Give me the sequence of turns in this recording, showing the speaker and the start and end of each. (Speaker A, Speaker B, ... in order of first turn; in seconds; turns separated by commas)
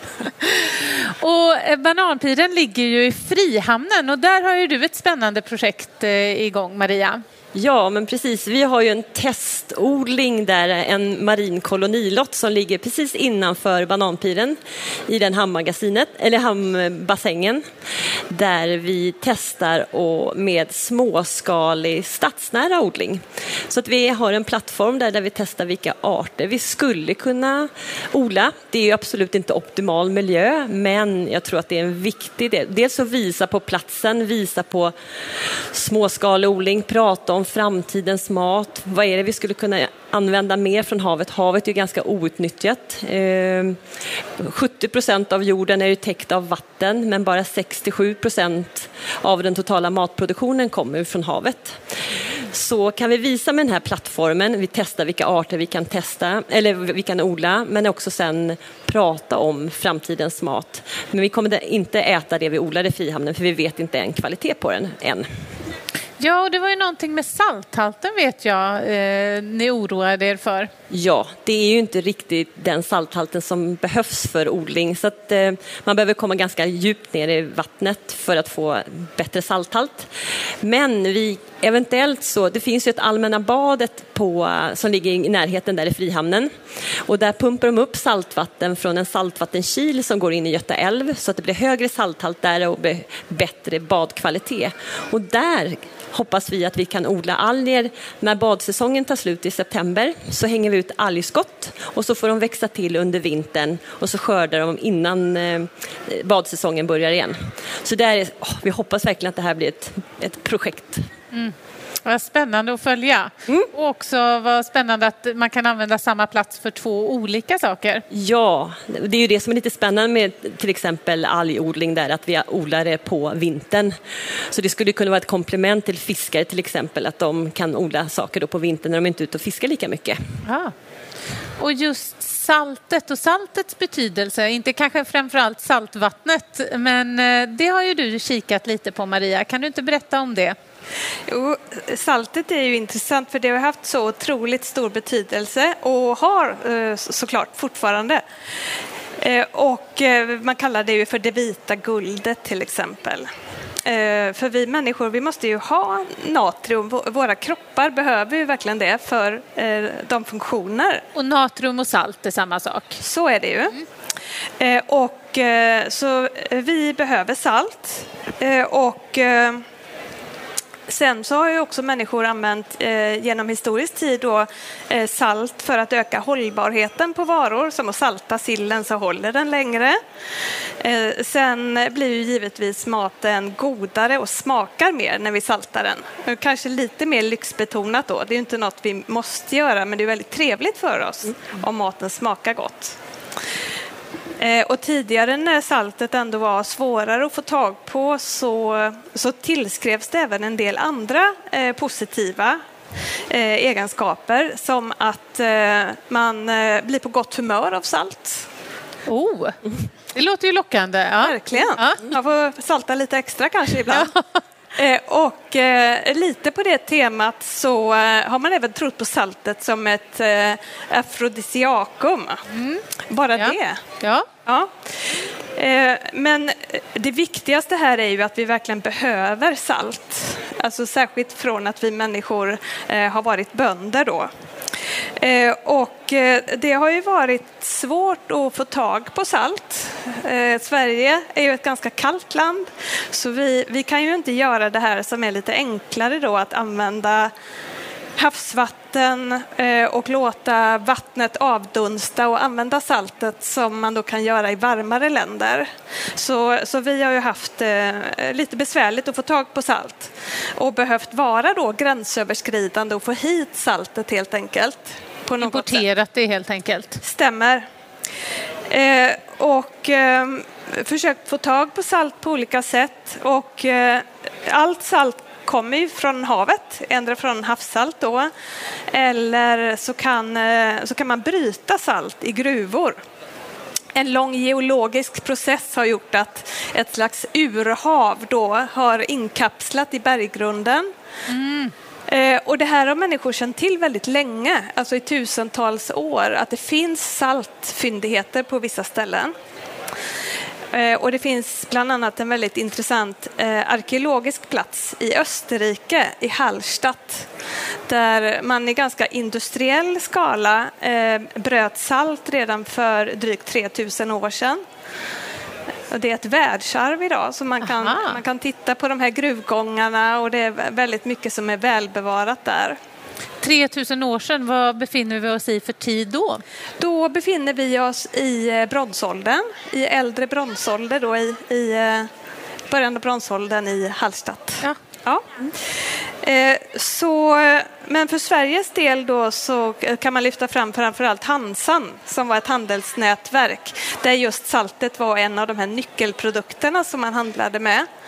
Speaker A: 0.2-7.2, Speaker B: 7.5-17.6, Speaker B: 18.3-34.9, Speaker B: 35.7-43.8, Speaker B: 44.4-65.3, Speaker A: 66.2-70.7, Speaker B: 70.9-80.1, Speaker B: 80.6-86.5, Speaker B: 87.0-111.1, Speaker A: 112.0-118.0, Speaker B: 118.1-124.0, Speaker B: 124.5-130.2, Speaker A: 130.4-130.7, Speaker A: 131.6-140.6, Speaker C: 141.3-148.2, Speaker C: 149.2-153.3, Speaker C: 153.8-161.1, Speaker A: 161.2-163.0, Speaker C: 163.0-163.8, Speaker C: 164.6-169.6, Speaker C: 170.9-180.0, Speaker C: 180.8-193.0, Speaker C: 194.4-202.6, Speaker C: 203.3-208.5, Speaker A: 209.1-209.6, Speaker A: 210.1-212.0, Speaker C: 211.2-214.1, Speaker A: 213.9-214.2, Speaker C: 214.8-222.4, Speaker A: 222.5-222.8, Speaker C: 223.1-223.8, Speaker A: 223.4-224.3, Speaker C: 224.4-234.3, Speaker C: 235.2-247.3, Speaker C: 248.2-265.8, Speaker A: 265.4-267.0, Speaker C: 267.0-267.7, Speaker C: 268.7-278.3, Speaker C: 278.9-283.0, Speaker C: 283.9-290.9, Speaker A: 291.3-291.7, Speaker C: 292.1-299.3, Speaker C: 300.7-307.3, Speaker C: 307.9-314.6, Speaker C: 315.9-322.8, Speaker A: 317.8-318.2, Speaker A: 323.4-326.4, Speaker C: 326.8-332.1, Speaker C: 332.7-335.4, Speaker C: 336.2-347.9